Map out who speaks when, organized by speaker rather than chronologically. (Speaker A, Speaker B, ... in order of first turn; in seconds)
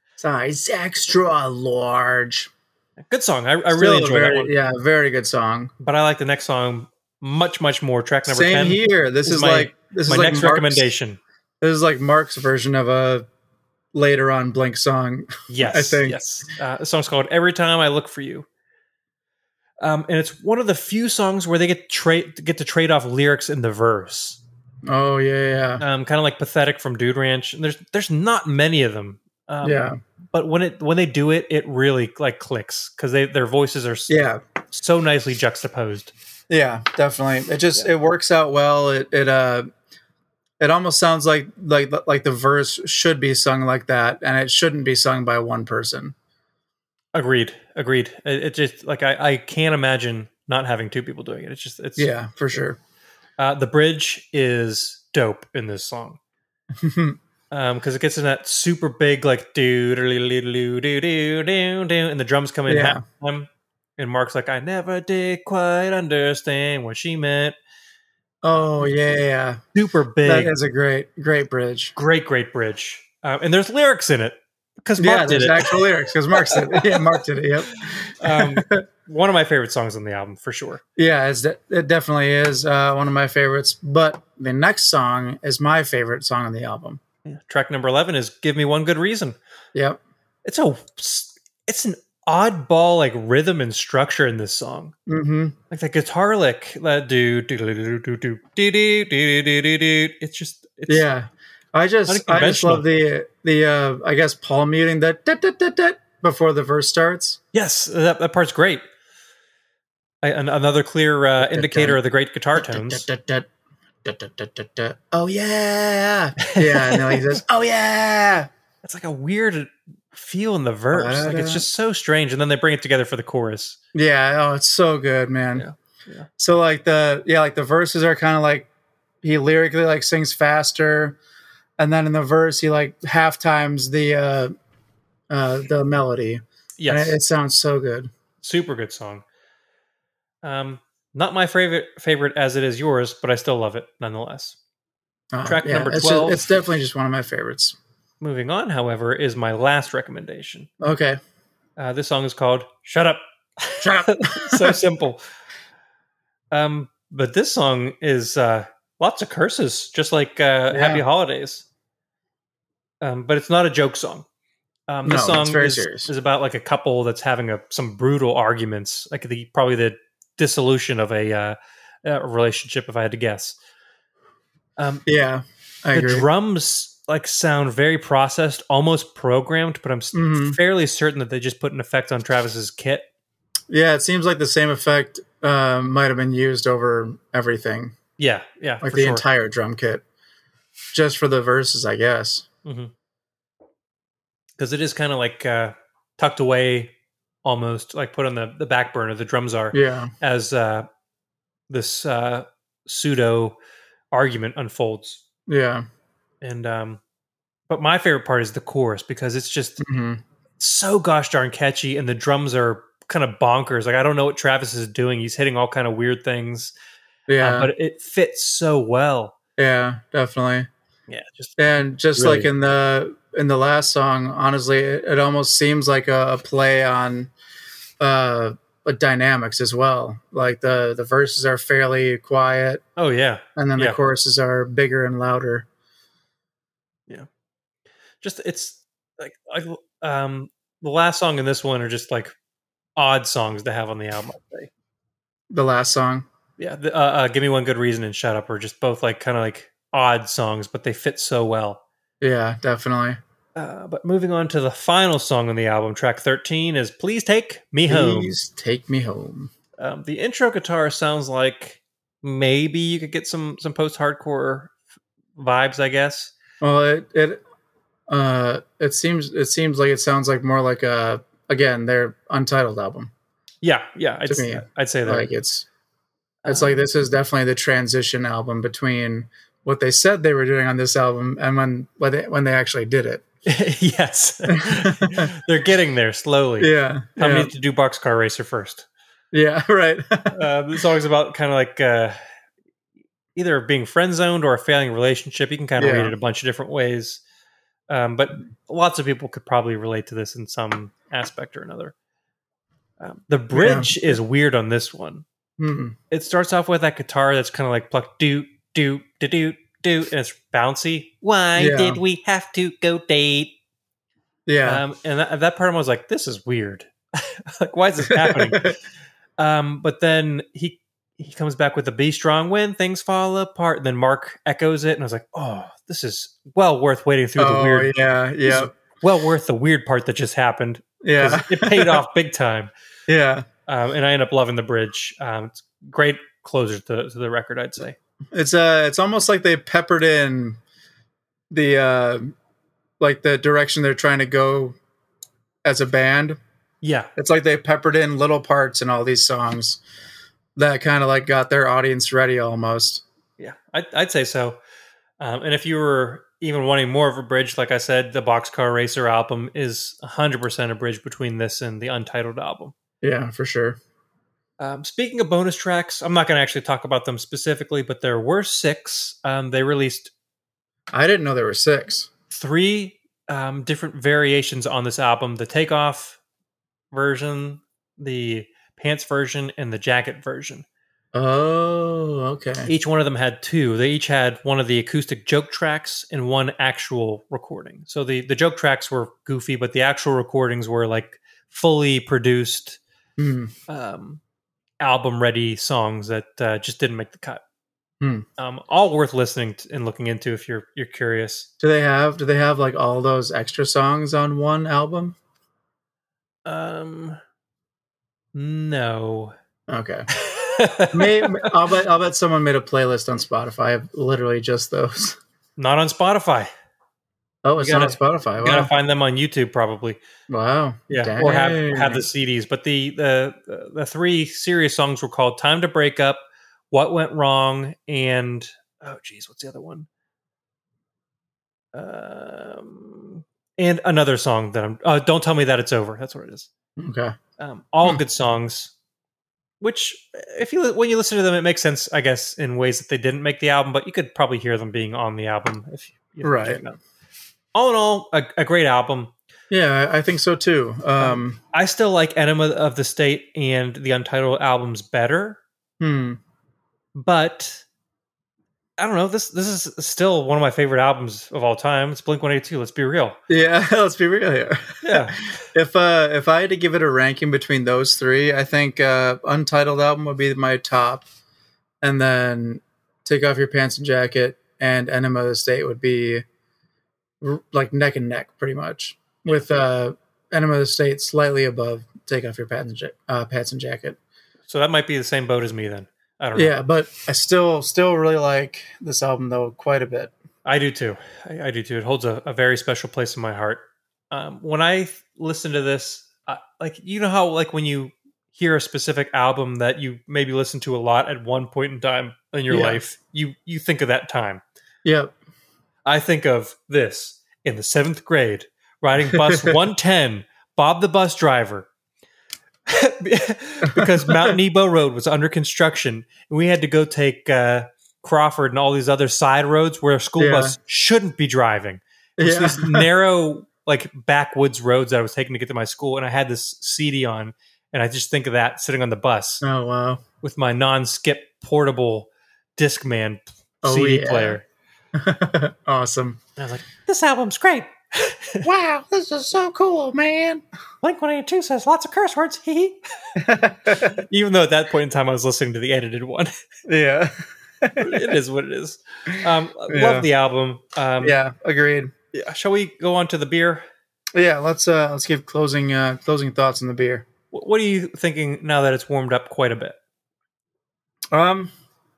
Speaker A: 0.2-2.5, 3.7-5.7, 8.3-10.9, 11.6-13.2, 13.9-16.2, 24.9-25.8, 29.6-30.0, 34.1-34.4, 36.5-39.7, 40.6-46.1, 52.0-52.8, 56.8-57.2, 62.7-63.0, 68.4-69.6, 70.2-71.9, 75.0-78.8, 81.0-87.0, 89.7-90.0, 95.1-95.6, 100.9-107.4, 111.4-112.0, 112.5-113.5, 114.0-118.5, 120.9-121.7, 123.9-125.7, 126.4-128.7, 129.2-131.2, 131.8-134.5, 135.3-138.1, 145.3-147.8, 150.8-151.2, 153.8-154.8, 160.7-161.0, 165.0-166.1, 175.1-176.2, 180.1-180.6, 183.7-187.9, 188.8-190.0, 190.9-192.4, 199.7-200.1, 205.5-205.8, 209.8-210.2, 217.3-217.7, 219.6-220.7, 221.6-227.3, 228.0-232.8, 233.6-235.7, 245.5-246.2, 252.2-253.2, 257.9-259.5, 266.6-267.4, 268.1-273.1, 274.3-275.7, 276.4-283.2, 284.5-285.3, 286.6-287.5, 289.3-290.4, 295.8-296.1, 303.5-303.9, 305.6-306.0, 311.6-312.0, 314.5-314.8, 318.1-318.7, 327.4-328.7, 331.0-332.0, 333.1-333.4, 338.3-340.6, 341.5-342.3, 343.0-344.8, 345.6-346.4, 347.1-349.8, 350.6-353.0, 363.0-363.8, 370.9-372.1, 381.1-382.7, 393.2-393.5, 398.0-398.2, 401.6-405.2, 409.7-410.1, 410.9-415.2, 417.4-418.7, 420.3-422.1, 436.8-437.1, 446.2-446.6, 449.5-451.4, 455.8-456.2, 463.3-471.0, 471.8-476.2, 477.2-484.0, 486.3-490.1, 502.5-502.8, 504.8-505.1, 509.1-509.5, 513.7-514.3, 520.2-520.5, 522.2-522.9, 529.4-530.0, 533.6-534.4, 534.9-536.2, 538.4-540.4, 543.2-543.9, 546.7-548.0, 549.7-550.1, 551.0-551.9, 554.1-557.0, 561.1-561.5
Speaker B: 3.1-4.5, 5.8-11.2, 15.5-18.5, 19.8-24.4, 25.8-34.2, 34.7-36.1, 47.1-52.1, 53.4-56.2, 57.5-67.5, 69.7-70.5, 71.9-77.2, 77.7-80.8, 87.2-89.4, 90.4-94.9, 95.7-101.0, 102.1-102.8, 107.5-108.8, 110.2-113.0, 116.4-117.4, 118.8-123.8, 125.5-126.3, 136.8-137.2, 138.4-139.2, 140.4-144.6, 145.4-146.4, 148.2-150.7, 151.8-155.2, 156.5-161.7, 163.0-164.2, 164.9-173.6, 174.8-175.0, 175.9-183.1, 188.2-189.2, 192.6-192.9, 194.6-196.9, 197.4-200.9, 201.7-203.6, 204.1-205.2, 206.4-207.0, 207.7-209.8, 210.6-216.7, 217.4-219.4, 221.1-221.6, 222.1-222.5, 233.0-234.0, 238.2-242.3, 243.0-244.7, 246.6-251.8, 253.6-258.3, 259.8-264.7, 265.4-266.3, 273.6-275.3, 276.4-276.7, 283.4-288.9, 290.3-292.1, 293.3-297.2, 297.9-301.9, 303.0-305.2, 306.1-313.6, 314.6-318.8, 319.4-327.9, 328.4-332.7, 333.7-338.0, 346.8-347.1, 353.4-354.6, 355.2-362.7, 364.6-370.1, 372.3-376.2, 376.9-380.6, 382.6-392.8, 393.7-394.2, 394.8-397.4, 398.4-401.5, 406.4-407.2, 408.3-409.3, 410.1-411.5, 415.6-416.5, 417.6-420.0, 420.9-429.9, 431.7-436.5, 437.4-438.7, 439.6-446.8, 447.5-449.1, 451.0-455.4, 456.9-457.6, 458.8-463.2, 464.8-465.3, 484.5-486.5, 490.4-504.4, 505.9-511.7, 512.7-529.4, 530.2-534.4, 536.4-538.5, 540.8-542.8, 543.7-546.3, 547.8-551.2, 552.1-553.6, 557.3-559.8